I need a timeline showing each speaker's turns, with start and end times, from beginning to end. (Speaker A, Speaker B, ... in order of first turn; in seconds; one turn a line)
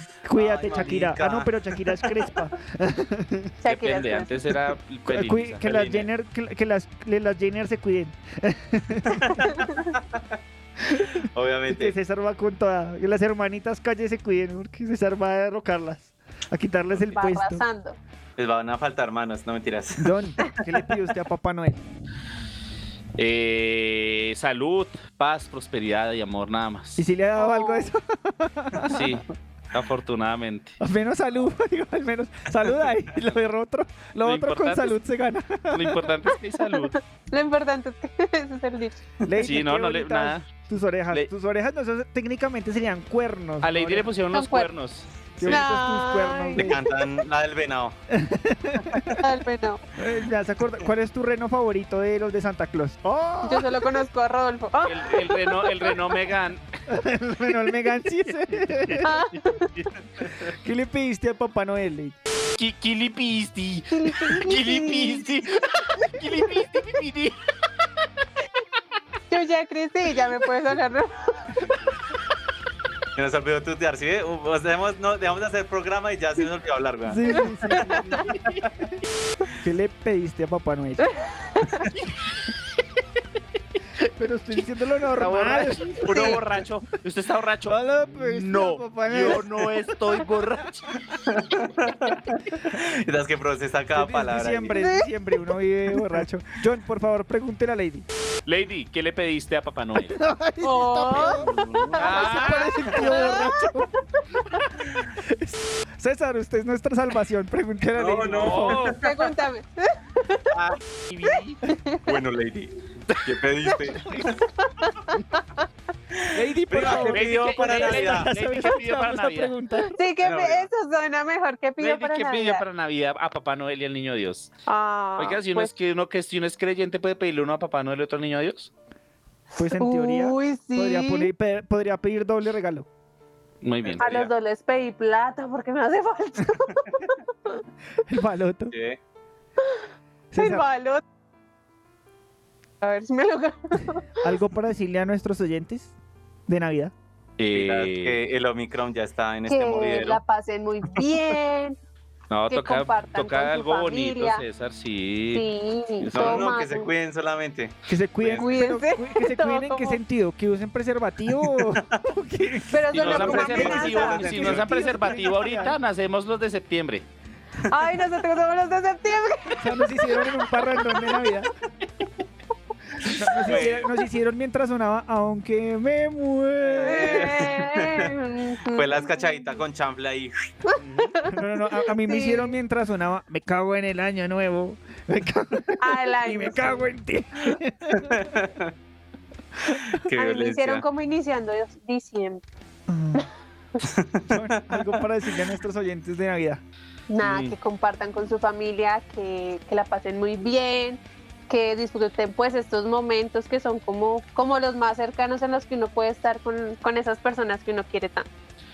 Speaker A: 0.2-3.5
Speaker B: 0.3-1.6
Speaker C: 3.6-4.5
Speaker D: 3.7-5.6
Speaker A: 5.0-9.4
Speaker B: 5.6-6.1
Speaker B: 9.2-10.2
Speaker A: 10.9-17.6
Speaker B: 11.3-11.9
Speaker C: 17.1-18.0
Speaker B: 18.4-20.5
Speaker A: 20.0-21.8
Speaker D: 23.2-27.0
Speaker A: 26.9-29.1
Speaker C: 27.4-27.9
Speaker D: 28.8-30.7
Speaker A: 30.8-36.0
Speaker D: 34.2-34.9
Speaker D: 35.7-37.0
Speaker C: 36.8-39.0
Speaker A: 39.2-44.1
Speaker D: 39.4-40.5
Speaker D: 43.6-45.6
Speaker C: 44.3-44.7
Speaker A: 45.4-46.8
Speaker C: 45.4-47.1
Speaker B: 46.6-47.9
Speaker A: 48.1-49.2
Speaker C: 49.2-49.8
Speaker A: 50.0-53.8
Speaker C: 53.4-55.9
Speaker D: 54.8-56.6
Speaker A: 56.9-59.1
Speaker C: 59.0-59.8
Speaker A: 60.4-62.1
Speaker D: 62.6-67.4
Speaker C: 63.9-65.2
Speaker C: 69.3-71.5
Speaker B: 73.2-78.6
Speaker A: 77.0-78.9
Speaker A: 79.6-81.2
Speaker C: 81.5-81.8
Speaker A: 84.2-86.4
Speaker D: 85.2-90.8
Speaker C: 86.0-86.4
Speaker A: 87.7-90.4
Speaker B: 91.3-94.8
Speaker A: 93.9-98.1
Speaker C: 94.7-95.1
Speaker D: 98.5-100.2
Speaker A: 100.1-103.9
Speaker C: 100.6-103.7
Speaker B: 101.1-102.2
Speaker D: 102.0-102.8
Speaker A: 104.4-108.9
Speaker B: 107.9-109.0
Speaker D: 108.4-109.3
Speaker C: 109.0-110.5
Speaker B: 110.5-110.8
Speaker D: 111.1-111.6
Speaker C: 111.7-112.0
Speaker B: 112.0-114.4
Speaker C: 114.6-115.7
Speaker A: 116.3-120.0
Speaker B: 116.5-118.3
Speaker D: 116.8-119.5
Speaker C: 119.9-122.6
Speaker B: 120.2-120.7
Speaker D: 121.8-124.5
Speaker C: 124.7-125.7
Speaker D: 125.2-128.7
Speaker A: 129.6-132.9
Speaker C: 129.8-131.3
Speaker D: 133.6-134.3
Speaker B: 133.8-134.3
Speaker C: 134.0-137.6
Speaker A: 138.1-138.7
Speaker B: 138.7-139.0
Speaker C: 139.6-141.0
Speaker A: 140.3-140.7
Speaker C: 142.8-144.1
Speaker A: 144.2-145.9
Speaker A: 146.5-146.9
Speaker D: 147.4-148.2
Speaker B: 147.5-150.2
Speaker C: 149.5-151.8
Speaker D: 152.3-155.4
Speaker C: 152.5-154.4
Speaker C: 155.3-156.9
Speaker D: 156.0-156.6
Speaker B: 156.1-158.5
Speaker A: 157.9-165.8
Speaker C: 158.4-160.0
Speaker C: 162.7-164.3
Speaker B: 162.9-164.7
Speaker D: 162.9-167.1
Speaker C: 167.7-171.1
Speaker A: 169.6-171.5
Speaker A: 173.0-177.3
Speaker D: 173.4-173.9
Speaker C: 176.8-179.2
Speaker B: 176.8-178.1
Speaker B: 178.7-180.5
Speaker C: 180.7-181.3
Speaker D: 180.8-181.2
Speaker A: 181.2-188.1
Speaker C: 181.8-182.5
Speaker C: 185.8-186.8
Speaker B: 187.9-188.7
Speaker B: 190.0-190.8
Speaker C: 190.2-192.4
Speaker A: 192.9-193.2
Speaker B: 193.8-195.0
Speaker A: 194.3-196.6
Speaker C: 197.1-208.3
Speaker D: 197.2-197.5